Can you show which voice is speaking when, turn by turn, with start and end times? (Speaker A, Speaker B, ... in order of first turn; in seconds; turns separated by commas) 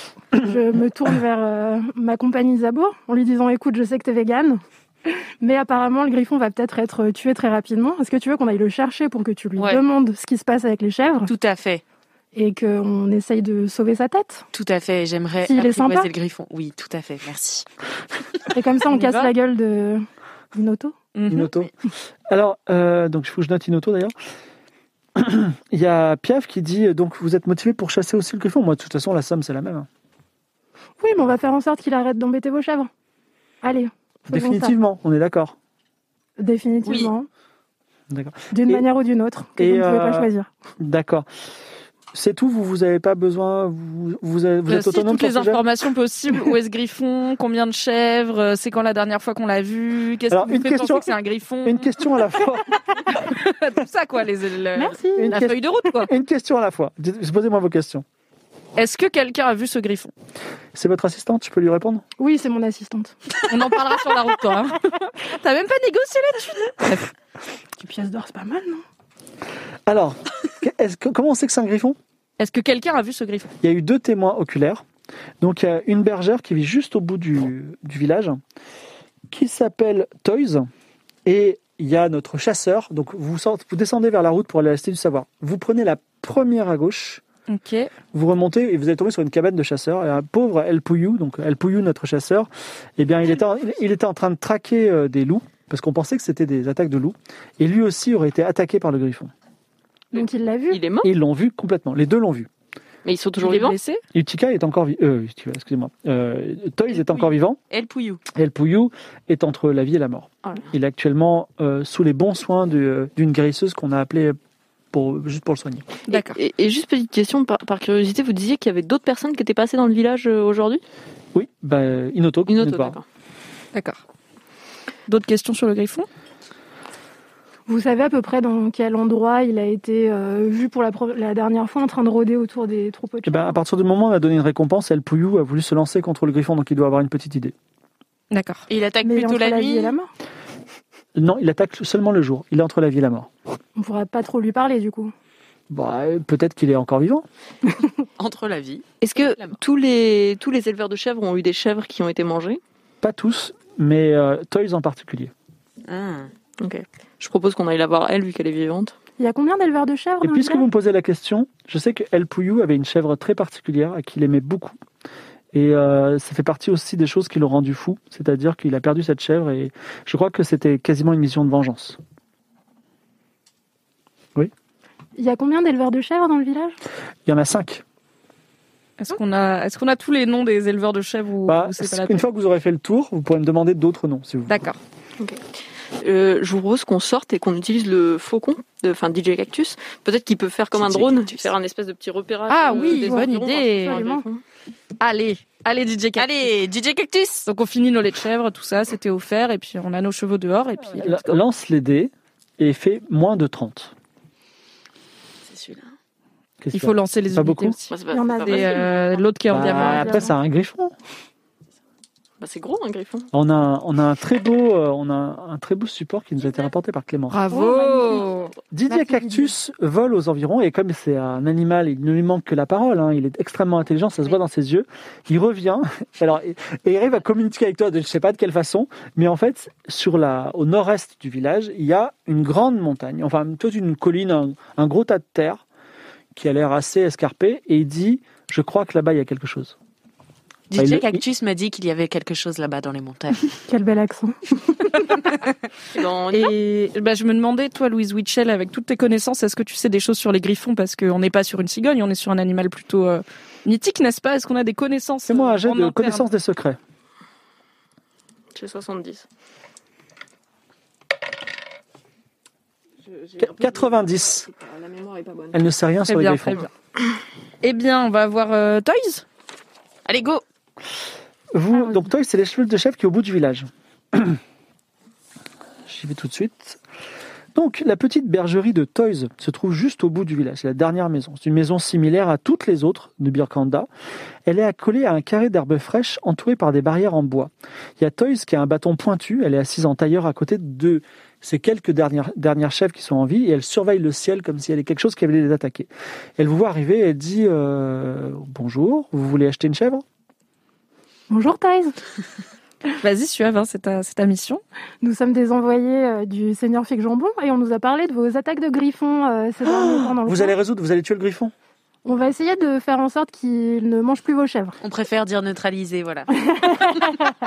Speaker A: 0.4-11.3, Speaker B: 9.6-9.8, Speaker B: 11.2-11.8, Speaker A: 12.3-14.4, Speaker B: 14.5-17.7, Speaker A: 15.4-16.1, Speaker A: 18.5-20.9, Speaker C: 18.9-19.3, Speaker C: 21.1-21.5, Speaker D: 21.3-21.7, Speaker D: 22.3-24.1, Speaker D: 25.1-29.9, Speaker A: 31.0-32.9, Speaker A: 33.6-34.7, Speaker D: 34.3-35.5, Speaker A: 36.4-37.3, Speaker B: 36.8-37.1, Speaker D: 38.1-38.8, Speaker A: 38.5-40.5, Speaker D: 39.6-40.3, Speaker D: 40.8-41.3, Speaker D: 42.1-45.6, Speaker C: 44.7-52.0, Speaker D: 50.3-51.1, Speaker D: 51.6-52.8, Speaker C: 53.1-56.1, Speaker A: 54.7-55.4, Speaker D: 55.1-58.0, Speaker C: 58.8-60.1, Speaker D: 60.7-62.0, Speaker A: 62.2-63.1, Speaker C: 63.5-67.1, Speaker A: 67.8-68.8, Speaker D: 69.9-72.0, Speaker C: 72.4-73.5, Speaker D: 73.6-74.8, Speaker D: 75.4-78.4, Speaker D: 79.3-80.7, Speaker D: 81.2-87.2, Speaker C: 87.5-87.9, Speaker D: 88.1-99.3, Speaker A: 100.1-100.8, Speaker E: 100.7-101.1, Speaker D: 101.0-102.5, Speaker E: 103.0-103.8, Speaker C: 103.4-104.0, Speaker D: 104.1-107.6, Speaker B: 106.9-108.2, Speaker D: 108.3-114.4, Speaker D: 114.9-115.8, Speaker C: 116.1-116.4, Speaker E: 116.1-120.8, Speaker D: 121.3-123.0, Speaker E: 122.5-123.0, Speaker C: 123.7-124.0, Speaker C: 125.1-126.1, Speaker A: 127.7-133.6, Speaker D: 133.2-137.5, Speaker C: 138.3-138.7, Speaker B: 138.7-139.9, Speaker A: 139.0-140.1, Speaker D: 141.1-143.3, Speaker A: 143.8-145.1, Speaker D: 145.7-147.2, Speaker B: 148.2-149.6, Speaker E: 149.0-152.6, Speaker D: 153.0-155.3, Speaker B: 155.8-156.3, Speaker E: 156.6-158.9, Speaker A: 159.2-160.7, Speaker D: 160.2-164.8, Speaker D: 165.5-172.0, Speaker A: 175.2-176.8, Speaker D: 177.2-177.8, Speaker C: 179.0-182.2, Speaker D: 181.4-184.6, Speaker C: 184.5-184.8, Speaker E: 185.2-185.4, Speaker E: 186.0-194.4, Speaker B: 190.7-191.5, Speaker C: 192.5-194.0, Speaker A: 192.7-193.3, Speaker A: 193.8-194.2, Speaker C: 195.0-196.5, Speaker B: 196.2-197.5, Speaker C: 197.4-201.4, Speaker D: 200.9-203.9, Speaker B: 205.4-205.9, Speaker D: 206.6-207.8, Speaker C: 206.7-210.3, Speaker E: 207.9-209.1, Speaker A: 208.1-208.9, Speaker D: 209.5-210.9, Speaker A: 209.5-210.3, Speaker E: 212.4-213.3, Speaker D: 213.3-217.4, Speaker C: 217.3-218.5, Speaker A: 217.5-218.3, Speaker D: 218.7-235.6, Speaker A: 218.9-219.4, Speaker D: 236.3-239.7, Speaker B: 240.7-243.4, Speaker D: 240.8-241.2, Speaker A: 243.7-244.9, Speaker E: 245.9-246.5, Speaker C: 246.3-256.3, Speaker D: 255.3-256.8, Speaker E: 258.5-259.2, Speaker E: 263.0-265.6, Speaker D: 263.4-264.5, Speaker D: 265.5-266.6, Speaker C: 266.1-266.7, Speaker C: 267.6-269.2, Speaker B: 270.1-270.4, Speaker D: 271.5-274.4, Speaker D: 275.9-276.8, Speaker D: 277.5-283.9, Speaker D: 284.4-300.0, Speaker A: 301.3-301.9, Speaker C: 303.0-304.6, Speaker A: 305.0-310.6, Speaker D: 309.6-311.5, Speaker A: 312.0-314.8, Speaker B: 314.8-316.9, Speaker A: 316.3-317.3